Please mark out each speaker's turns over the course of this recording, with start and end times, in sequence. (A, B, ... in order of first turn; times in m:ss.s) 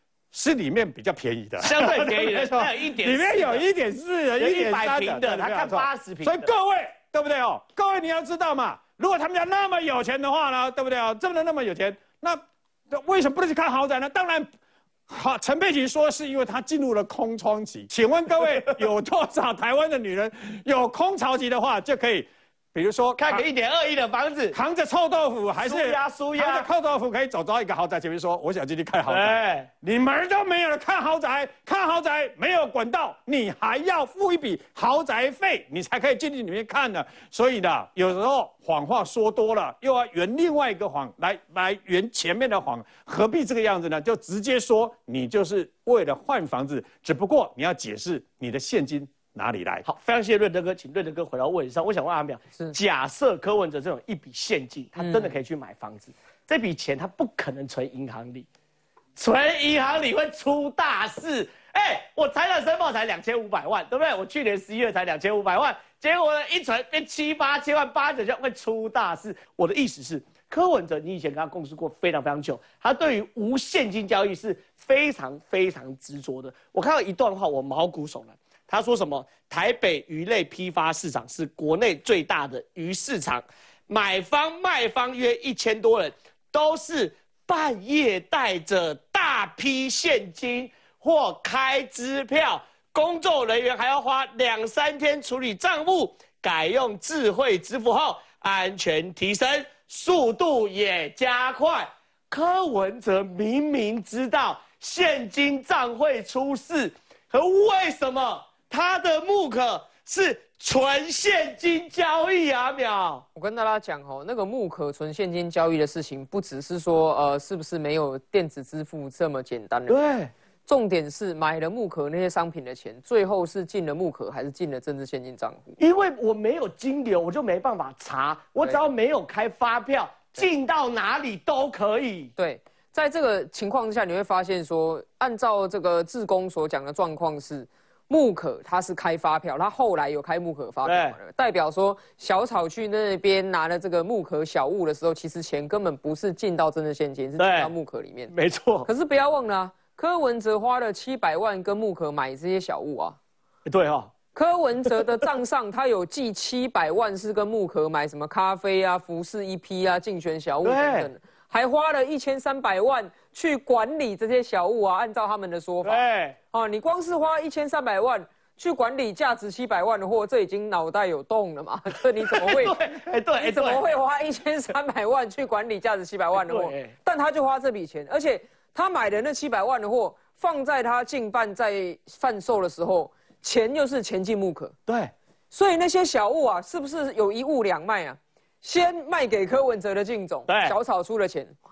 0:00.3-0:14.5 A
0:01.6-0:03.7 B
0:04.4-0:06.5 B
0:15.1-0:23.4 A
0:23.2-0:24.6 B
0:24.5-0:49.8 A
0:25.6-0:26.7 B
0:29.1-0:29.7 B
0:49.8-0:58.5 B
0:55.0-0:55.3 C
0:59.2-1:53.2 B
1:53.4-2:00.0 C
1:59.9-2:00.3 B
2:00.7-2:05.8 C
2:05.8-2:12.3 B
2:12.4-2:28.3 C
2:20.8-2:21.2 B
2:27.4-2:27.7 B
2:28.3-2:28.9 B
2:28.8-2:33.2 C
2:33.7-2:34.1 B
2:34.3-2:52.8 C
2:40.6-2:41.1 B
2:45.8-2:46.4 B
2:52.3-2:53.8 B
2:53.4-3:04.8 C
2:56.4-2:56.9 B
3:05.5-3:11.5 C
3:10.5-3:10.8 B